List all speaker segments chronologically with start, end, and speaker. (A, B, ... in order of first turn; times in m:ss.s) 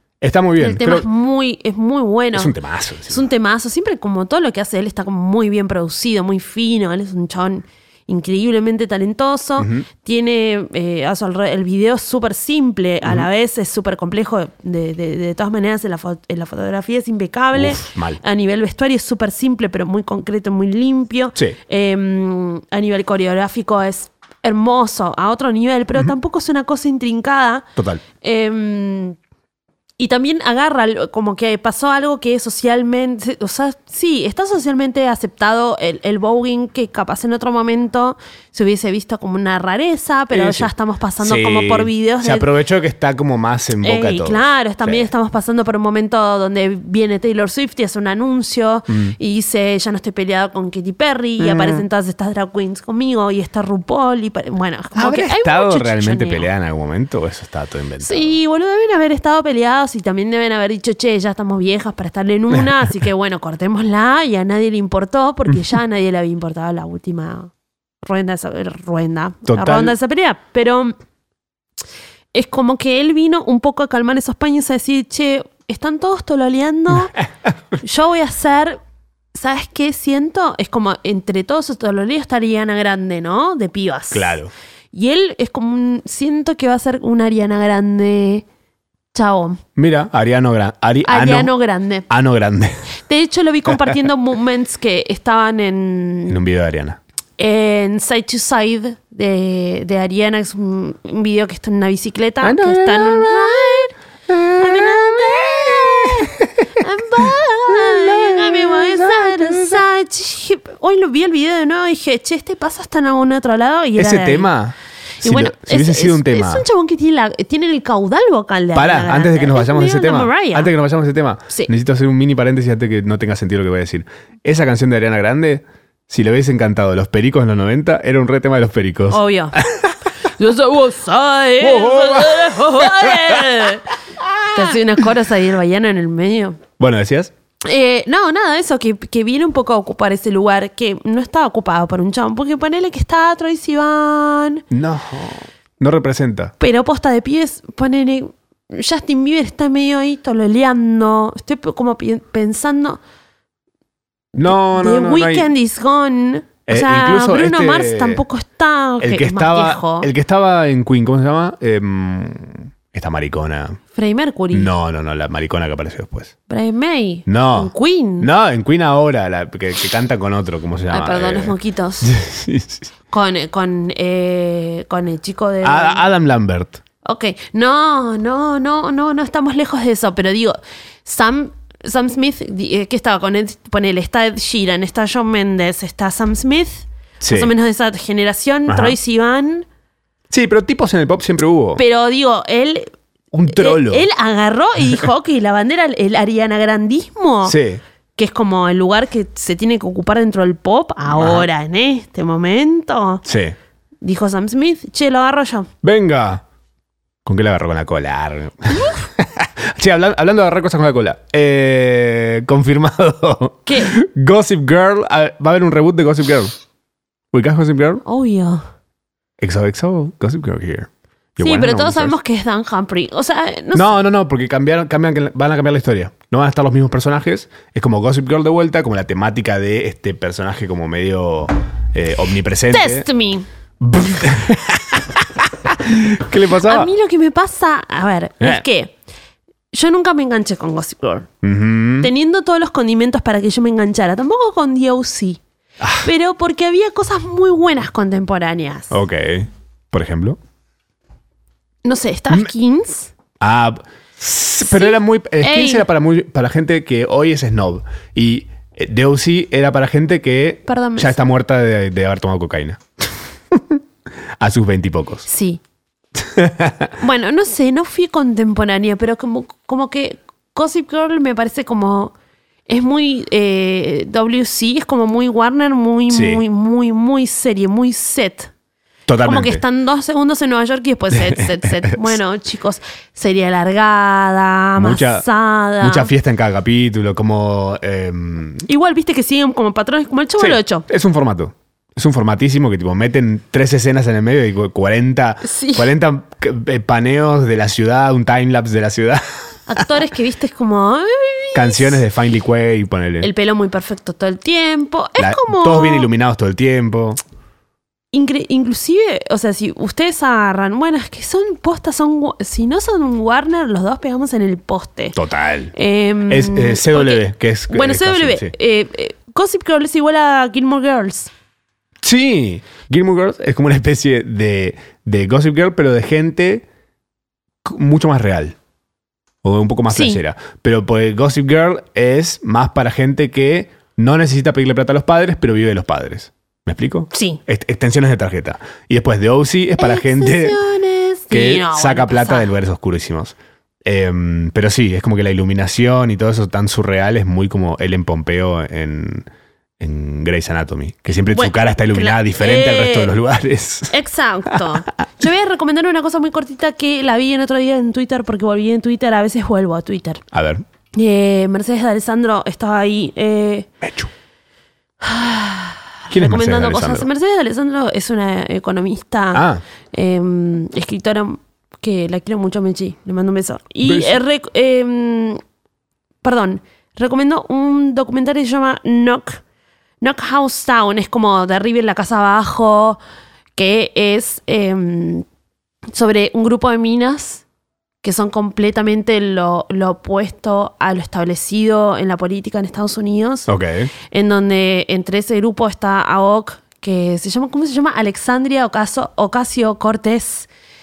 0:00.2-0:01.1 A
0:00.6-0:02.6 B
0:02.3-0:03.2 A
0:03.1-0:27.7 B
0:09.6-0:09.8 A
0:13.0-0:13.3 A
0:17.5-0:18.2 A
0:27.8-0:28.0 A
0:28.2-0:29.2 B
0:30.0-0:42.4 B
0:40.3-0:45.1 A
0:43.8-0:56.5 B
0:48.9-0:49.1 A
0:51.4-0:51.8 A
0:54.9-0:58.3 A
0:58.0-1:07.5 B
1:08.0-1:11.0 B
1:09.4-1:09.9 A
1:12.3-1:17.1 B
1:17.8-1:18.8 B
1:19.3-1:24.4 B
1:24.1-1:24.5 A
1:24.9-1:28.4 B
1:29.1-1:29.6 B
1:29.8-1:31.5 A
1:31.0-1:32.1 B
1:32.1-1:32.8 A
1:33.1-1:36.4 B
1:36.3-1:37.0 A
1:37.4-1:43.9 B
1:42.4-1:43.8 A
1:44.3-1:49.8 A
1:44.6-1:54.5 B
1:54.0-1:56.6 A
1:55.2-2:00.7 B
1:58.7-2:09.9 A
2:09.1-2:09.6 B
2:10.2-2:13.9 B
2:11.6-2:13.7 A
2:14.2-2:15.0 A
2:14.5-2:16.6 B
2:16.8-2:17.3 A
2:17.6-2:24.6 B
2:24.7-2:26.5 A
2:26.6-2:33.0 B
2:34.3-2:35.5 A
2:34.4-2:40.1 B
2:36.7-2:38.2 A
2:39.0-2:43.8 A
2:43.9-2:44.7 B
2:44.5-2:46.3 A
2:46.5-2:48.3 B
2:47.3-2:52.9 A
2:50.9-2:52.1 B
2:53.1-2:56.1 B
2:55.6-2:56.8 A
2:57.0-3:09.6 B
3:07.2-3:07.5 A
3:08.7-3:09.0 A
3:10.3-3:11.8 A
3:11.8-3:12.9 B
3:13.3-3:14.1 A
3:13.4-3:17.6 B
3:17.4-3:17.8 A
3:18.2-3:23.2 B
3:21.1-3:21.5 A
3:23.2-3:23.6 A
3:24.0-3:25.7 B
3:25.8-3:26.4 A
3:27.2-3:36.5 A
3:33.6-3:33.9 B
3:37.3-3:38.0 A
3:38.0-3:38.6 B
3:39.4-3:42.2 A
3:41.4-3:43.9 B
3:43.7-3:53.0 A
3:52.7-3:53.5 B
3:53.8-3:56.9 A
3:56.6-3:58.9 B
3:59.7-4:01.3 B
4:01.4-4:02.1 A
4:02.0-4:05.4 B
4:05.8-4:06.1 A
4:06.0-4:08.9 B
4:08.9-4:10.4 A
4:11.8-4:13.1 B
4:13.4-4:23.8 A
4:14.6-4:15.8 B
4:20.7-4:21.2 B
4:24.4-4:25.3 A
4:25.3-4:25.6 B
4:26.2-4:26.9 A
4:27.0-4:32.1 B
4:32.7-4:38.5 B
4:36.1-4:36.4 A
4:39.1-4:39.6 A
4:39.2-4:46.1 B
4:41.1-4:42.1 A
4:44.8-4:45.3 A
4:45.8-4:48.7 A
4:48.7-4:50.9 B
4:50.4-5:00.0 A
4:55.4-4:55.9 B
4:59.7-5:02.0 B
5:01.5-5:03.3 A
5:03.2-5:06.1 B
5:05.2-5:07.2 A
5:08.1-5:15.2 B
5:15.1-5:15.7 A
5:15.7-5:21.3 B
5:16.3-5:18.5 A
5:22.0-5:26.6 A
5:27.6-5:28.6 A
5:29.4-5:40.6 A
5:29.9-5:30.2 B
5:37.1-5:37.4 B
5:39.8-5:42.5 B
5:41.3-5:49.3 A
5:49.8-5:53.9 A
5:51.3-5:53.1 B
5:53.9-6:00.2 B
6:00.3-6:00.6 A
6:00.9-6:03.7 B
6:03.8-6:04.1 A
6:05.0-6:15.4 B
6:06.1-6:07.1 A
6:09.3-6:09.6 A
6:13.8-6:14.2 A
6:16.2-6:19.4 B
6:20.0-6:23.0 B
6:23.5-6:25.2 B
6:25.9-6:27.4 B
6:28.0-6:33.5 B
6:33.5-6:33.9 A
6:34.1-6:40.5 B